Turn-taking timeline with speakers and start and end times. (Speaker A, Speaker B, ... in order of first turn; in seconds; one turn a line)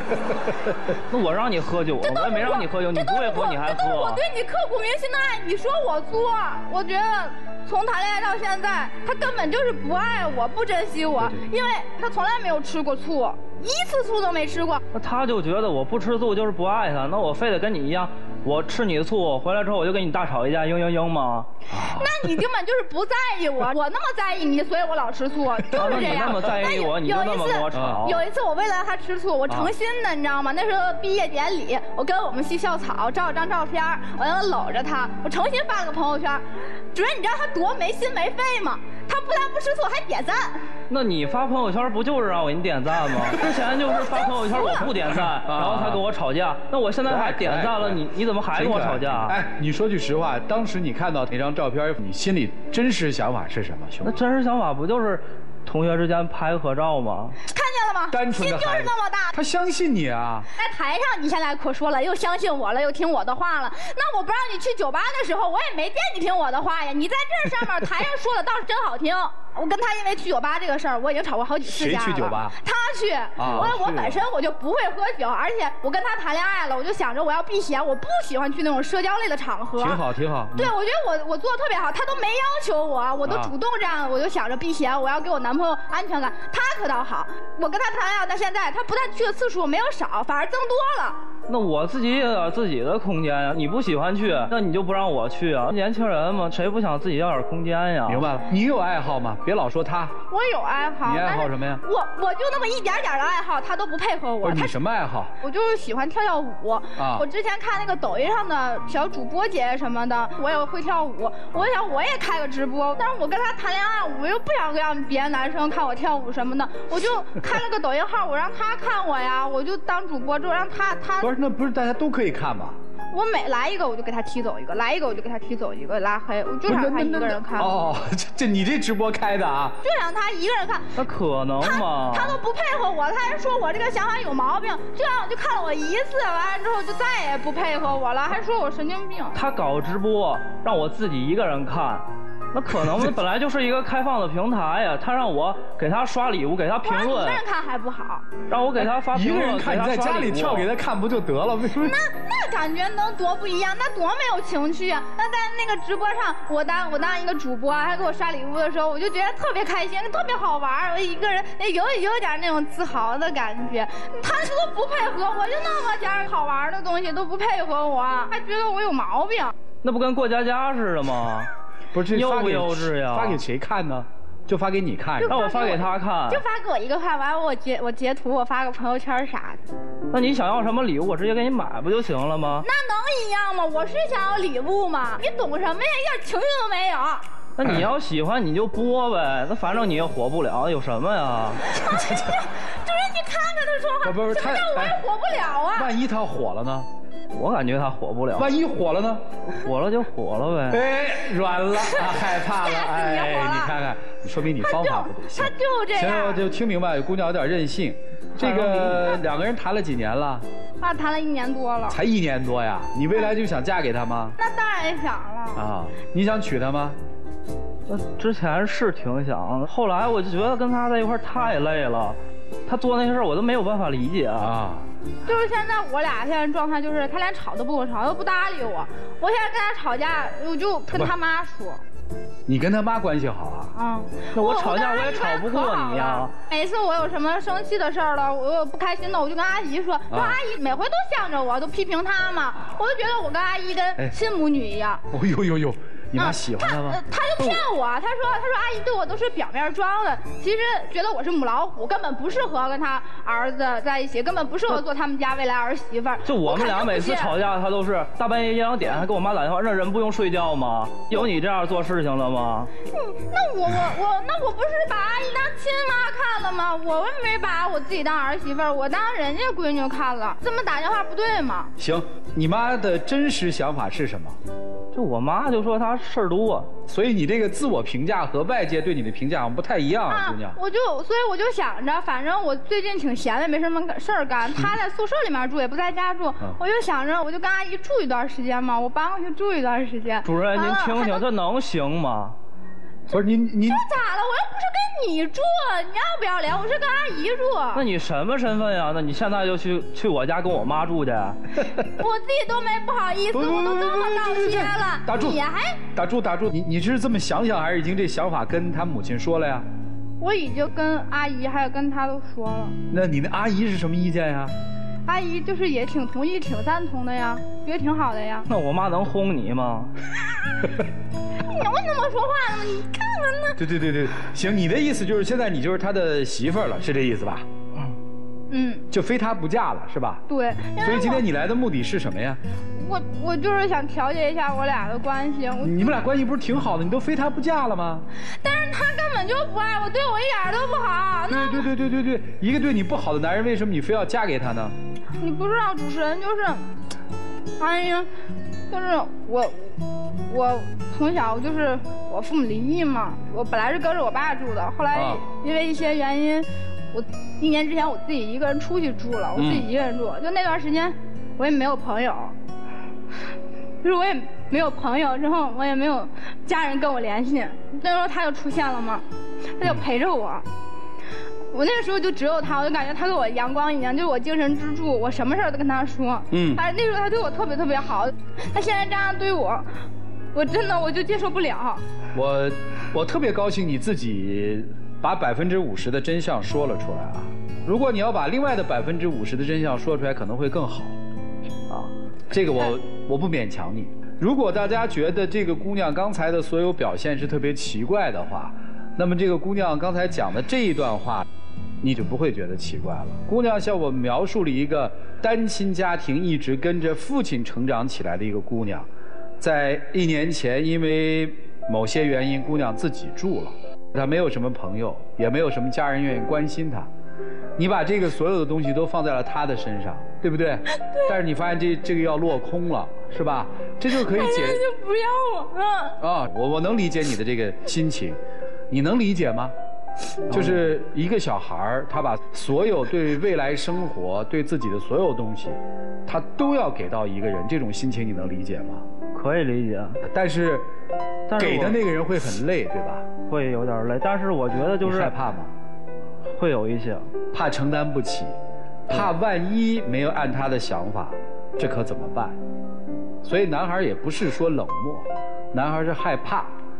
Speaker A: 1.1-4.2
Speaker B: 2.0-14.8
Speaker A: 14.9-21.5
Speaker C: 21.7-22.1
Speaker B: 21.8-40.6
Speaker C: 25.7-26.9
Speaker A: 25.7-28.2
Speaker C: 27.7-28.0
Speaker A: 40.9-49.4
Speaker B: 44.0-44.9
Speaker C: 45.4-46.0
Speaker C: 47.0-48.0
Speaker C: 48.5-54.1
Speaker A: 54.0-57.4
Speaker B: 57.5-59.3
Speaker C: 58.1-60.5
Speaker B: 60.5-80.0
Speaker C: 71.6-72.5
Speaker C: 73.4-74.2
Speaker A: 73.4-73.7
Speaker C: 79.8-80.7
Speaker B: 80.5-91.2
Speaker C: 83.2-83.5
Speaker A: 91.5-98.2
Speaker C: 98.1-100.2
Speaker B: 100.3-104.7
Speaker C: 101.0-101.8
Speaker C: 104.4-105.3
Speaker B: 105.4-121.3
Speaker C: 107.0-107.2
Speaker C: 121.2-122.8
Speaker B: 123.1-127.7
Speaker C: 126.7-129.8
Speaker B: 129.8-130.9
Speaker A: 131.0-132.4
Speaker B: 131.6-139.3
Speaker A: 139.3-147.4
Speaker B: 146.8-148.3
Speaker A: 148.5-150.7
Speaker C: 148.8-151.9
Speaker B: 151.7-169.5
Speaker A: 169.8-171.5
Speaker C: 171.9-175.5
Speaker A: 172.1-173.4
Speaker B: 175.2-179.6
Speaker A: 175.2-176.4
Speaker A: 180.1-182.7
Speaker B: 182.6-187.2
Speaker A: 187.6-191.7
Speaker B: 191.7-195.9
Speaker C: 191.9-192.3
Speaker C: 194.0-195.0
Speaker C: 195.7-196.9
Speaker A: 197.3-198.5
Speaker C: 198.3-199.2
Speaker A: 199.5-200.8
Speaker C: 200.7-210.4
Speaker B: 201.9-203.7
Speaker B: 204.6-206.4
Speaker A: 208.4-208.9
Speaker B: 210.8-212.0
Speaker C: 211.9-214.4
Speaker B: 214.4-215.6
Speaker C: 215.6-217.0
Speaker A: 217.9-224.5
Speaker C: 224.4-224.9
Speaker B: 225.2-231.8
Speaker C: 230.9-231.1
Speaker C: 232.5-233.7
Speaker B: 233.7-245.0
Speaker A: 234.3-236.3
Speaker C: 240.1-240.4
Speaker C: 245.1-247.6
Speaker B: 246.2-257.4
Speaker A: 256.2-262.7
Speaker B: 262.9-271.7
Speaker C: 271.8-274.4
Speaker A: 274.9-276.7
Speaker C: 276.9-280.6
Speaker B: 280.1-291.2
Speaker A: 290.2-292.4
Speaker C: 293.1-293.8
Speaker B: 293.6-297.8
Speaker A: 297.7-301.4
Speaker B: 301.9-305.8
Speaker C: 303.3-305.4
Speaker C: 305.9-309.7
Speaker B: 310.2-312.8
Speaker C: 312.9-314.5
Speaker B: 315.1-318.4
Speaker A: 318.5-319.9
Speaker B: 321.4-323.6
Speaker C: 323.6-327.4
Speaker B: 328.5-328.8
Speaker C: 328.9-330.2
Speaker B: 330.3-331.2
Speaker C: 330.8-332.4
Speaker B: 332.8-335.7
Speaker C: 335.6-338.1
Speaker B: 338.4-341.7
Speaker C: 341.3-344.7
Speaker B: 345.2-346.7
Speaker B: 347.6-348.1
Speaker B: 348.7-349.8
Speaker B: 350.3-362.3
Speaker C: 354.9-355.2
Speaker C: 359.4-359.6
Speaker B: 363.8-369.0
Speaker B: 369.6-370.4
Speaker B: 371.5-379.8
Speaker C: 376.3-376.6
Speaker B: 380.3-381.8
Speaker C: 382.1-390.9
Speaker C: 391.7-401.2
Speaker C: 401.8-408.9
Speaker C: 409.4-416.9
Speaker C: 417.6-424.6
Speaker B: 424.0-426.0
Speaker C: 426.0-428.2
Speaker C: 428.7-429.5
Speaker C: 430.3-438.8
Speaker A: 439.1-440.0
Speaker C: 440.1-440.7
Speaker A: 441.3-441.8
Speaker C: 441.4-443.1
Speaker A: 443.2-445.1
Speaker C: 444.8-445.5
Speaker A: 446.3-447.1
Speaker C: 447.3-448.3
Speaker C: 448.9-452.4
Speaker C: 453.2-456.5